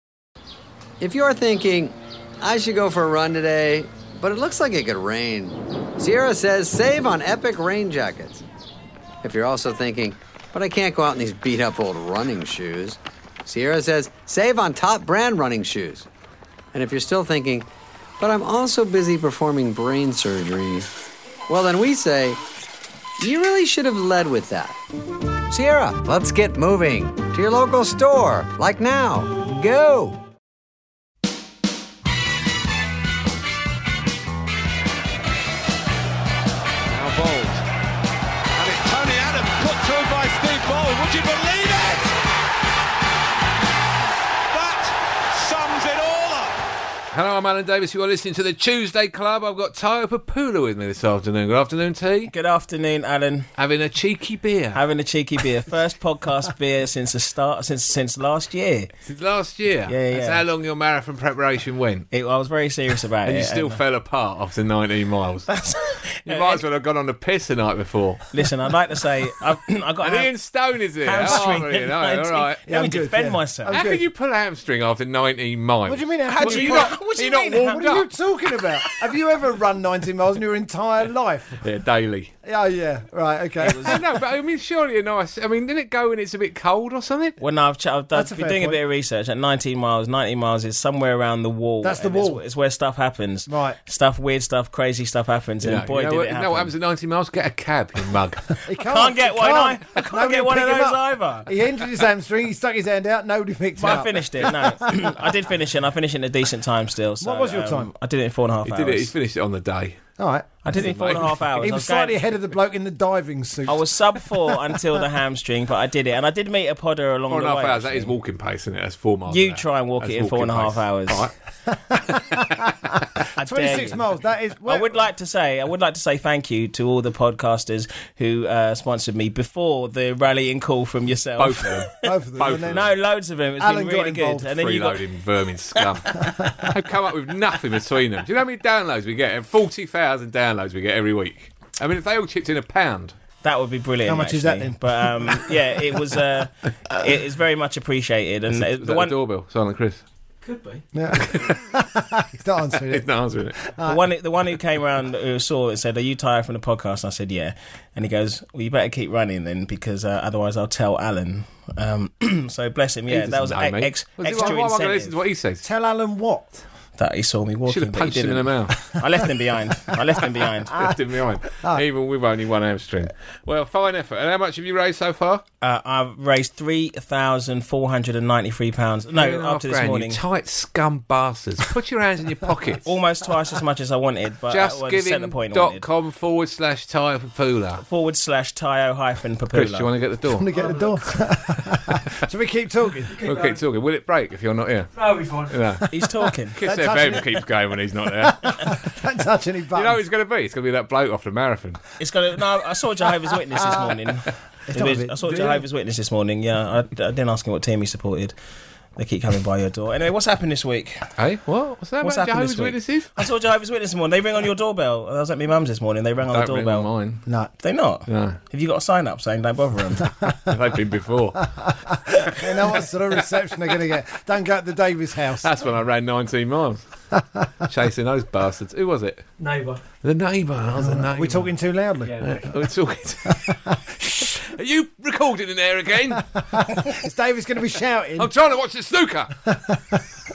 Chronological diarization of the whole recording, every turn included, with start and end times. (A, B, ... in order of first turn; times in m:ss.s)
0:01.0-0:08.4 A
0:09.2-0:16.1 A
0:16.7-0:17.7 A
0:18.2-0:20.9 A
0:21.5-0:22.4 A
0:23.2-0:24.8 A
0:25.5-0:30.2 A
0:36.9-0:37.6 B
0:38.5-0:42.1 B
0:44.5-0:46.6 B
0:47.1-0:52.3 C
0:52.3-0:53.5 D
0:53.6-0:54.8 C
0:54.7-0:58.9 D
0:59.0-1:02.1 C
0:59.9-1:00.4 D
1:02.1-1:03.8 D
1:03.2-1:05.5 C
1:05.5-1:06.6 D
1:06.3-1:08.3 C
1:08.3-1:10.3 D
1:10.0-1:12.6 C
1:11.0-1:13.8 D
1:12.6-1:14.0 E
1:13.7-1:18.1 C
1:15.8-1:17.0 E
1:16.3-1:17.9 D
1:17.7-1:21.6 E
1:21.6-1:22.3 C
1:22.4-1:24.0 E
1:23.6-1:24.0 D
1:23.8-1:27.4 C
1:27.4-1:36.7 D
1:28.1-1:28.8 E
1:31.8-1:32.4 E
1:33.5-1:33.8 E
1:35.6-1:38.6 C
1:38.6-1:44.6 E
1:38.8-1:41.5 D
1:39.5-1:40.0 C
1:43.8-1:49.1 D
1:47.2-1:47.9 E
1:48.6-1:50.0 C
1:50.2-1:50.5 E
1:50.6-1:52.2 D
1:50.7-1:51.4 C
1:51.5-1:53.8 E
1:53.6-1:58.1 D
1:57.3-2:01.3 C
1:59.3-2:01.2 D
2:01.9-2:02.5 E
2:03.4-2:04.0 D
2:03.4-2:05.0 E
2:04.6-2:15.0 D
2:11.4-2:12.9 C
2:12.0-2:12.9 E
2:13.6-2:14.5 E
2:14.5-2:23.1 C
2:15.8-2:16.4 D
2:23.4-2:29.1 D
2:24.0-2:25.4 E
2:28.5-2:30.0 C
2:30.5-2:30.8 B
2:30.9-2:33.0 E
2:31.2-2:31.6 C
2:32.7-2:33.6 C
2:33.6-2:34.1 E
2:33.8-2:45.2 D
2:43.1-2:45.6 C
2:45.6-2:46.6 E
2:47.0-2:50.9 D
2:47.7-2:48.8 C
2:50.7-2:55.4 C
2:55.6-3:00.2 D
2:59.1-3:02.9 C
3:02.8-3:05.8 D
3:04.5-3:07.8 C
3:07.8-3:09.9 D
3:09.5-3:10.5 C
3:10.3-3:13.2 E
3:11.6-3:12.2 C
3:13.1-3:16.0 C
3:15.9-3:16.6 D
3:16.5-3:18.8 C
3:16.6-3:17.4 E
3:18.1-3:20.0 E
3:19.7-3:21.8 C
3:22.0-3:28.3 D
3:24.7-3:25.6 E
3:29.0-3:31.1 D
3:31.2-3:33.2 C
3:32.0-3:36.9 D
3:36.3-3:37.2 C
3:37.2-3:37.5 E
3:37.6-3:40.1 D
3:38.1-3:38.4 C
3:40.4-3:41.5 C
3:42.1-3:45.5 E
3:45.4-3:46.8 C
3:47.2-3:47.4 E
3:47.6-3:49.3 C
3:49.4-3:49.7 B
3:50.0-3:51.5 C
3:50.8-3:52.3 E
3:52.2-3:56.3 C
3:53.3-3:54.3 E
3:56.3-3:58.3 E
3:58.2-3:59.4 C
3:59.5-4:00.0 E